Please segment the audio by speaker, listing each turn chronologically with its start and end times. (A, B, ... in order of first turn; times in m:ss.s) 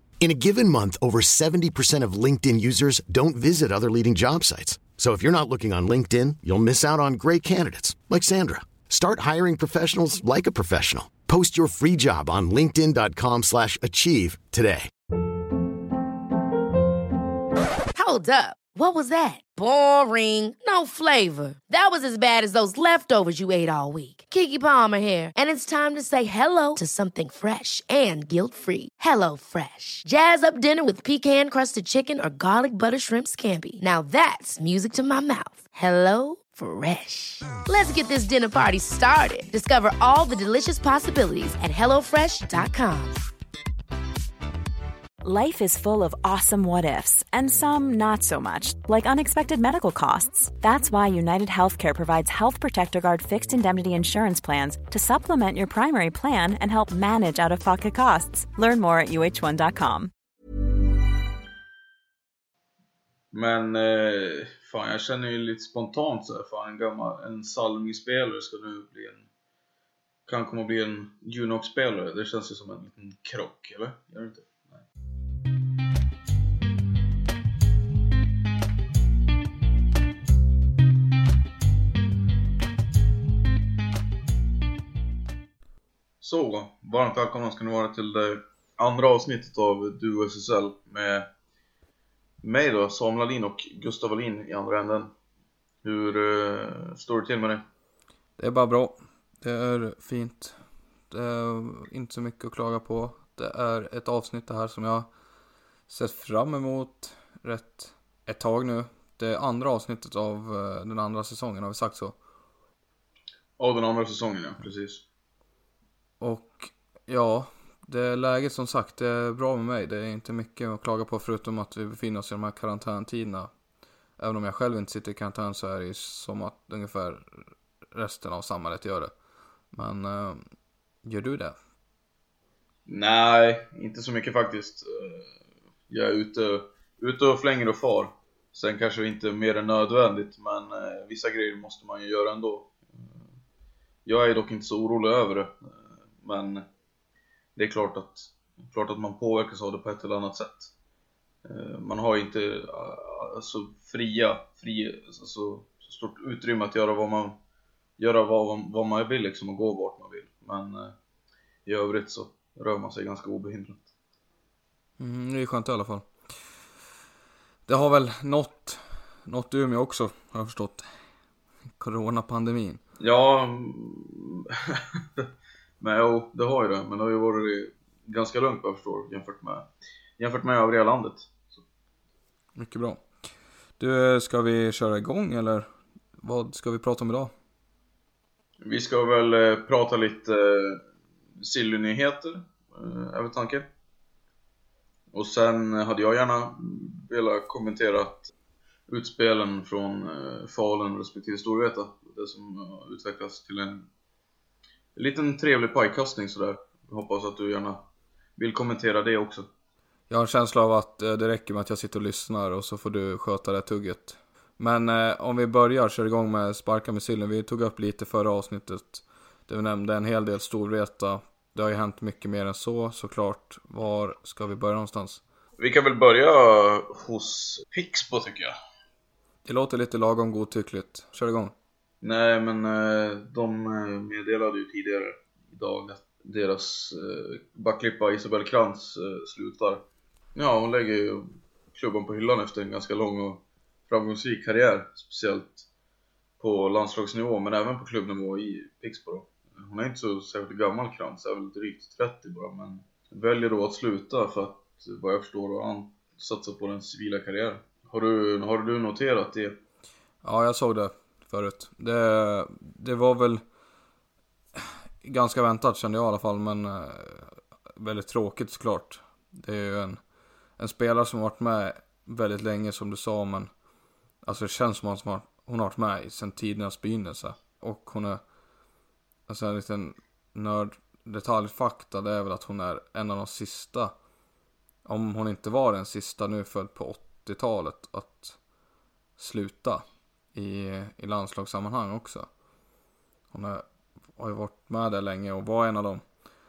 0:00.2-0:14.9 A
0:17.9-0:43.2 B
0:45.2-1:00.1 C
1:03.3-1:09.2 D
1:10.3-1:14.8 D
1:26.2-1:31.3 D
1:32.4-1:35.1 D
1:35.8-1:37.6 D
1:38.4-1:40.6 E
1:41.1-1:45.1 E
1:45.9-1:52.1 E
1:53.6-1:55.0 D
1:56.2-2:03.5 E
2:04.2-2:09.1 E
2:09.7-2:10.4 E
2:11.0-2:11.5 E
2:12.9-2:15.3 D
2:15.9-2:23.2 D
2:24.0-2:26.6 D
2:27.6-2:30.7 D
2:31.4-2:37.4 D
2:38.0-2:40.9 D
2:41.6-2:43.9 D
2:45.0-2:46.1 E
2:47.7-2:50.9 E
2:51.8-2:52.8 E
2:53.0-2:55.2 D
2:55.8-2:59.6 D
3:00.2-3:01.6 D
3:02.6-3:03.0 E
3:03.8-3:05.7 E
3:06.2-3:07.3 E
3:08.6-3:10.8 D
3:11.4-3:13.7 D
3:15.1-3:18.3 D
3:18.9-3:23.9 D
3:24.9-3:27.8 D
3:28.4-3:29.5 D
3:30.1-3:45.2 E
3:45.6-3:48.5 D
3:49.4-3:51.5 E
3:52.0-3:59.8 D
4:00.3-4:05.7 D
4:06.4-4:19.6 D
4:20.2-4:23.4 E
4:24.6-4:30.0 E
4:30.6-4:33.5 E
4:34.2-4:38.2 E
4:39.3-4:43.9 E
4:44.8-4:48.4 E
4:49.2-4:52.3 E
4:53.3-4:53.6 E
4:54.2-4:56.0 E